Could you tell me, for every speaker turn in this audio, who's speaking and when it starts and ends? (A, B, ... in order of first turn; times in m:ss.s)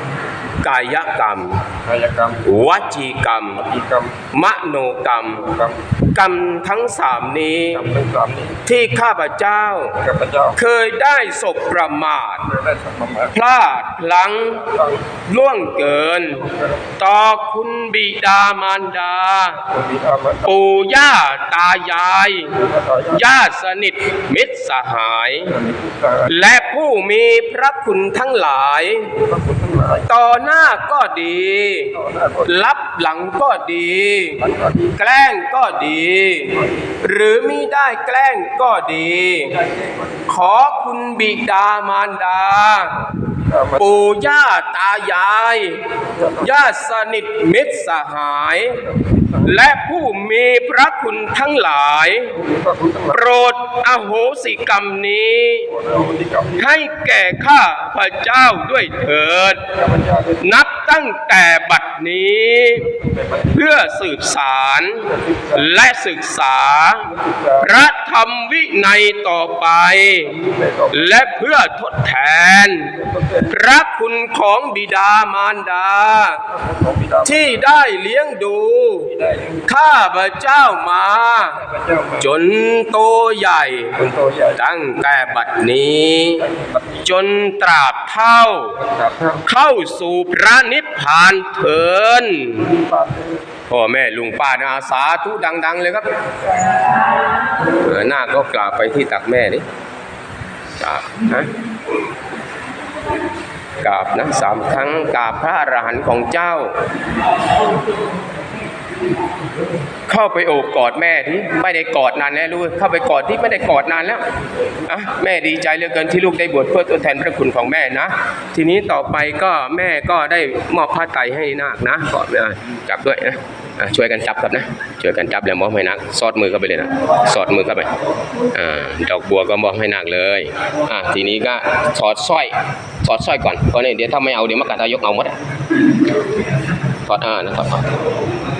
0:00.6-0:01.6 A
0:01.8-0:02.4 B
0:02.4-0:03.6 A
0:03.6-0:04.1 B
0:04.3-0:05.5 A
0:05.5-0:05.7 B
0:06.1-0:07.9 A
0:07.7-0:08.6 B
0:08.6-0:10.0 A
0:10.0-0:10.6 B
0:10.5-0:12.5 A
0:12.5-0:13.3 B
0:13.3-0:14.7 A
0:14.7-0:15.0 B
0:15.3-0:19.7 A
0:16.4-0:16.8 B
0:19.7-0:20.5 B
0:20.4-0:22.6 A
0:22.5-0:23.2 B
0:23.1-0:25.5 A
0:25.5-0:26.3 B
0:26.2-0:29.1 A
0:29.2-0:30.0 B
0:30.1-0:34.4 A
0:32.0-0:32.5 B
0:34.4-0:34.9 B
0:35.0-0:39.6 A
0:40.3-0:43.0 A
0:43.3-0:43.8 B
0:43.8-0:45.8 A
0:46.2-0:46.4 B
0:46.4-0:48.9 A
0:49.0-0:49.4 B
0:49.4-0:52.4 A
0:52.4-0:53.2 B
0:53.1-0:55.7 A
0:55.7-0:56.6 B
0:56.6-0:59.6 A
0:59.8-1:00.4 B
1:00.4-1:03.0 A
1:02.9-1:03.5 B
1:03.5-1:10.4 A
1:05.1-1:05.6 B
1:07.1-1:07.6 B
1:10.3-1:11.1 B
1:10.9-1:16.4 A
1:13.0-1:13.5 B
1:16.5-1:17.5 B
1:17.2-1:21.6 A
1:19.1-1:19.6 B
1:21.6-1:22.2 B
1:22.2-1:24.0 A
1:24.0-1:24.6 B
1:24.6-1:26.5 A
1:26.5-1:27.0 B
1:27.0-1:28.8 A
1:28.8-1:29.4 B
1:29.4-1:32.7 A
1:32.7-1:33.4 B
1:33.7-1:36.1 A
1:37.7-1:39.6 A
1:40.8-1:41.5 A
1:43.8-1:46.8 A
1:50.1-1:54.2 A
1:54.9-2:07.9 A
2:08.5-2:15.3 A
2:17.0-2:17.9 A